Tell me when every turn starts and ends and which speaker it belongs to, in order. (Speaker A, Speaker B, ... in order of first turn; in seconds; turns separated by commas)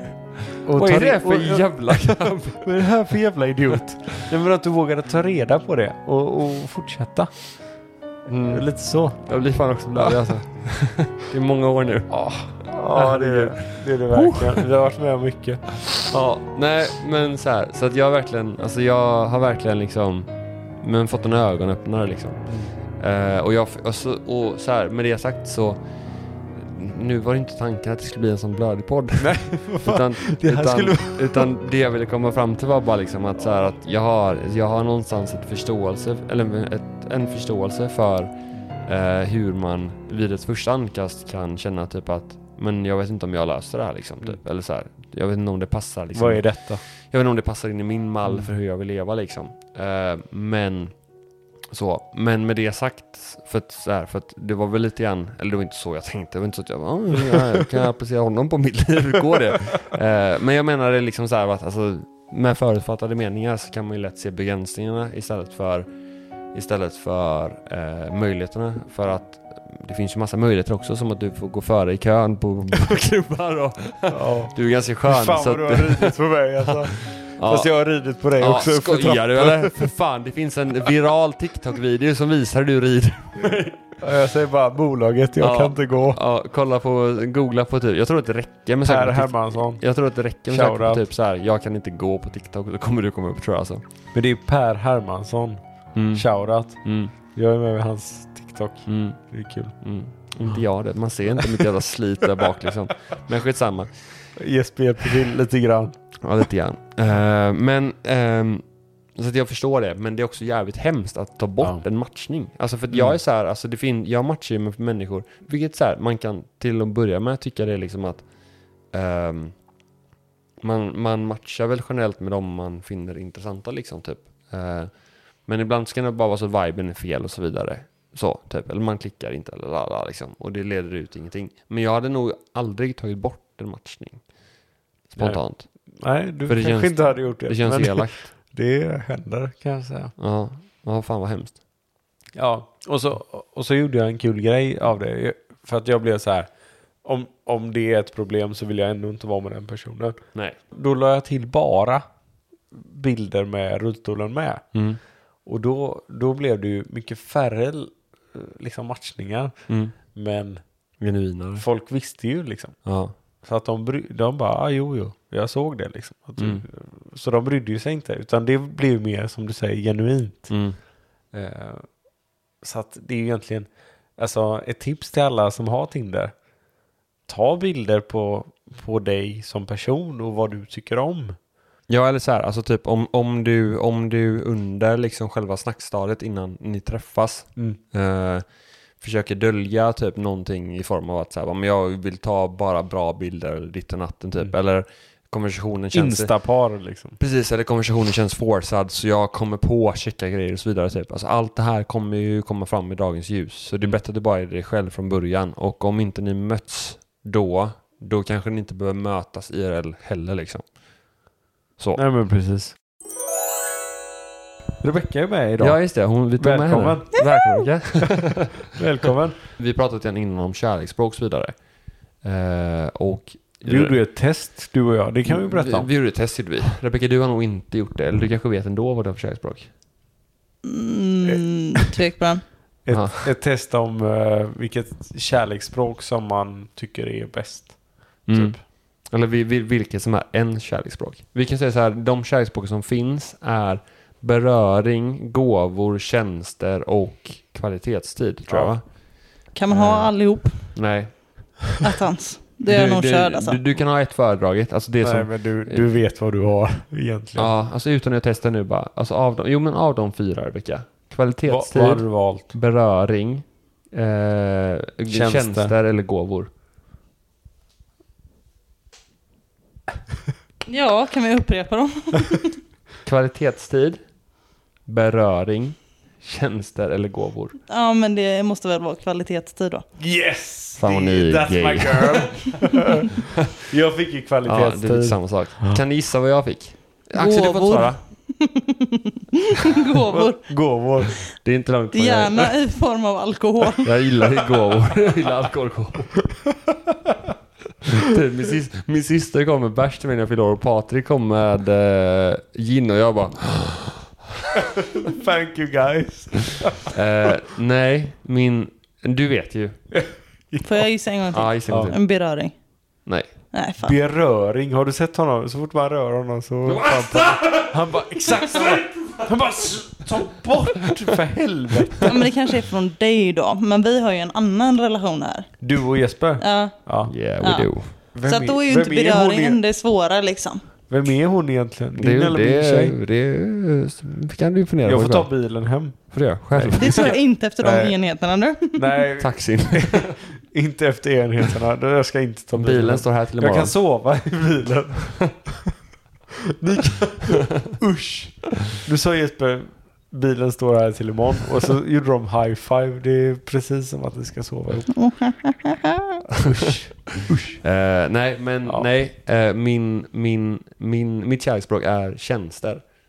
Speaker A: 0.6-7.4, Speaker B: 0.7-2.7, Speaker B: 8.3-14.6, Speaker A: 8.5-9.2, Speaker A: 12.1-16.0, Speaker B: 16.0-22.4, Speaker A: 22.5-22.7, Speaker B: 23.0-25.8, Speaker B: 26.5-38.3, Speaker A: 29.2-31.5, Speaker B: 38.8-46.5, Speaker A: 46.1-46.8, Speaker B: 47.1-51.0, Speaker A: 48.2-48.5, Speaker B: 51.7-65.9, Speaker B: 66.5-77.7, Speaker A: 74.1-79.9, Speaker B: 78.4-84.0, Speaker A: 84.0-86.2, Speaker B: 85.4-93.8, Speaker A: 88.8-89.8, Speaker A: 90.5-91.0, Speaker A: 94.1-95.6, Speaker B: 96.0-96.2, Speaker A: 96.1-99.8, Speaker B: 96.8-97.1, Speaker B: 98.9-99.2, Speaker B: 99.8-104.3, Speaker A: 104.3-106.0, Speaker B: 106.2-118.3, Speaker A: 112.9-113.2, Speaker B: 118.9-119.6, Speaker B: 120.6-134.2, Speaker B: 135.1-135.7, Speaker A: 135.2-140.1, Speaker B: 136.5-138.3, Speaker B: 140.2-141.6, Speaker A: 142.4-146.5, Speaker A: 147.0-150.2, Speaker A: 150.7-152.0, Speaker A: 152.7-154.6, Speaker B: 154.7-155.0, Speaker A: 155.4-159.5, Speaker B: 159.7-160.0, Speaker A: 160.1-160.6, Speaker B: 161.0-161.7, Speaker A: 161.6-162.8, Speaker B: 162.8-163.1, Speaker A: 163.4-170.5, Speaker B: 166.4-166.6, Speaker B: 170.5-170.8, Speaker A: 171.3-171.9, Speaker A: 172.6-176.3, Speaker A: 177.3-181.4, Speaker B: 181.9-188.4, Speaker B: 189.0-196.3, Speaker A: 195.9-197.2, Speaker B: 197.2-210.7, Speaker A: 212.0-212.8, Speaker A: 214.8-217.2, Speaker B: 215.6-218.6, Speaker C: 217.2-217.6, Speaker A: 218.7-219.4, Speaker B: 219.4-221.6, Speaker B: 222.2-224.0, Speaker A: 223.6-225.9, Speaker B: 225.2-229.7, Speaker C: 230.6-232.4, Speaker A: 231.2-231.9, Speaker A: 232.8-238.6, Speaker B: 232.9-233.3, Speaker B: 238.3-248.8, Speaker A: 248.5-248.7, Speaker C: 249.5-250.8, Speaker B: 249.7-251.6, Speaker C: 251.8-253.6, Speaker B: 252.7-255.9, Speaker A: 255.0-257.5, Speaker B: 257.4-266.5, Speaker A: 261.5-262.5, Speaker A: 265.1-265.8, Speaker C: 270.7-272.6, Speaker B: 273.0-274.0, Speaker B: 274.9-277.6, Speaker C: 277.7-279.8, Speaker A: 280.0-285.8, Speaker B: 280.8-282.5, Speaker B: 284.4-288.0, Speaker C: 287.1-290.4, Speaker A: 290.1-291.2, Speaker B: 291.4-292.5, Speaker C: 291.9-293.9, Speaker B: 293.8-296.3, Speaker A: 296.7-297.3, Speaker B: 297.9-304.1, Speaker A: 304.6-307.0, Speaker B: 306.9-309.8, Speaker A: 309.9-310.9, Speaker C: 310.6-312.5, Speaker B: 311.3-312.0, Speaker A: 311.7-311.9, Speaker C: 313.5-313.9, Speaker A: 313.8-322.3, Speaker B: 316.7-319.3, Speaker C: 322.0-325.6, Speaker A: 325.6-327.1, Speaker C: 326.4-326.8, Speaker B: 327.1-327.9, Speaker C: 327.4-330.6, Speaker A: 328.1-329.6, Speaker A: 330.9-333.0, Speaker B: 332.0-335.3, Speaker A: 334.8-337.9, Speaker B: 336.1-337.2, Speaker C: 336.8-339.0, Speaker A: 338.7-345.6, Speaker B: 339.2-340.2, Speaker B: 342.6-343.7, Speaker A: 346.6-355.0, Speaker C: 355.0-356.2, Speaker A: 356.4-357.6, Speaker B: 356.7-362.8